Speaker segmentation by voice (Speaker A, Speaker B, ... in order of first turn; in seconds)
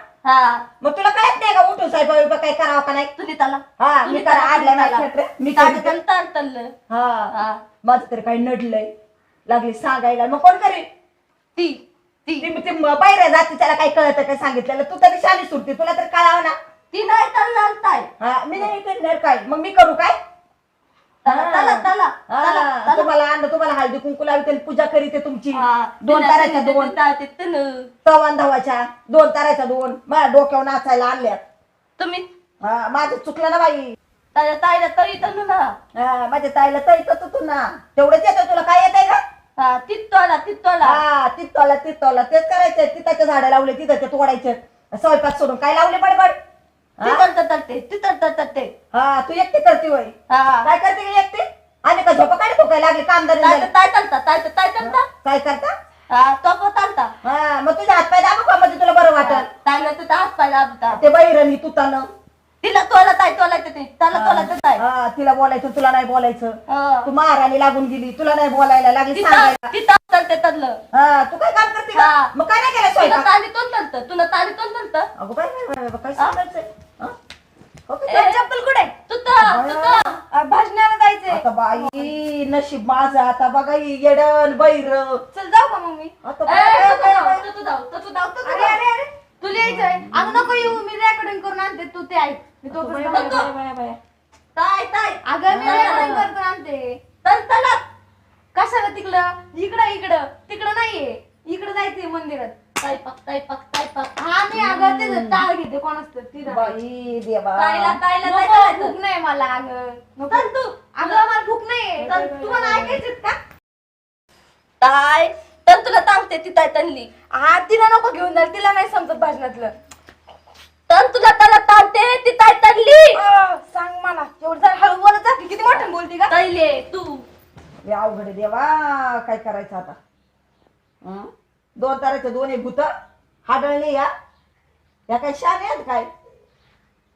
Speaker A: 0.2-0.7, 3.2-6.7, 7.3-7.7, 11.6-12.5, 16.9-18.7, 21.2-23.1, 25.5-27.9, 32.0-32.3, 34.4-35.8, 39.6-41.0, 47.0-48.7, 50.3-50.7, 53.4-55.1, 56.1-57.1, 59.2-61.0, 62.6-64.8, 66.7-67.1, 69.1-70.8, 71.9-72.3, 72.9-75.1, 78.1-78.4, 79.1-80.2, 86.5-88.8, 89.4-89.7, 93.1-93.5, 94.5-96.3, 97.2-97.8, 102.8-104.1, 107.6-109.0, 110.3-111.3, 112.0-113.0, 114.8-117.1, 120.9-123.2, 126.3-127.2
Speaker B: 0.8-3.1, 3.8-6.0, 6.9-7.3, 7.8-8.9, 9.5-10.9, 12.4-16.6, 18.2-20.2, 21.3-26.9, 28.1-31.4, 32.6-34.0, 36.0-39.2, 40.8-46.4, 47.0-47.2, 48.9-50.1, 50.6-53.7, 54.8-55.7, 57.2-59.5, 60.9-62.1, 64.1-69.7, 70.9-73.3, 75.2-77.2, 77.9-78.3, 79.4-80.1, 81.3-85.2, 86.2-87.4, 89.5-90.8, 92.7-94.0, 95.5-96.2, 104.5-105.5, 106.4-108.0, 127.9-130.0, 131.0-132.9, 133.5-134.1, 135.1-136.1
Speaker C: 78.1-78.9, 80.3-82.2, 85.3-86.1, 88.4-93.5, 95.2-97.0, 98.5-102.6, 104.2-106.8, 108.2-113.4, 117.3-119.7, 123.1-126.4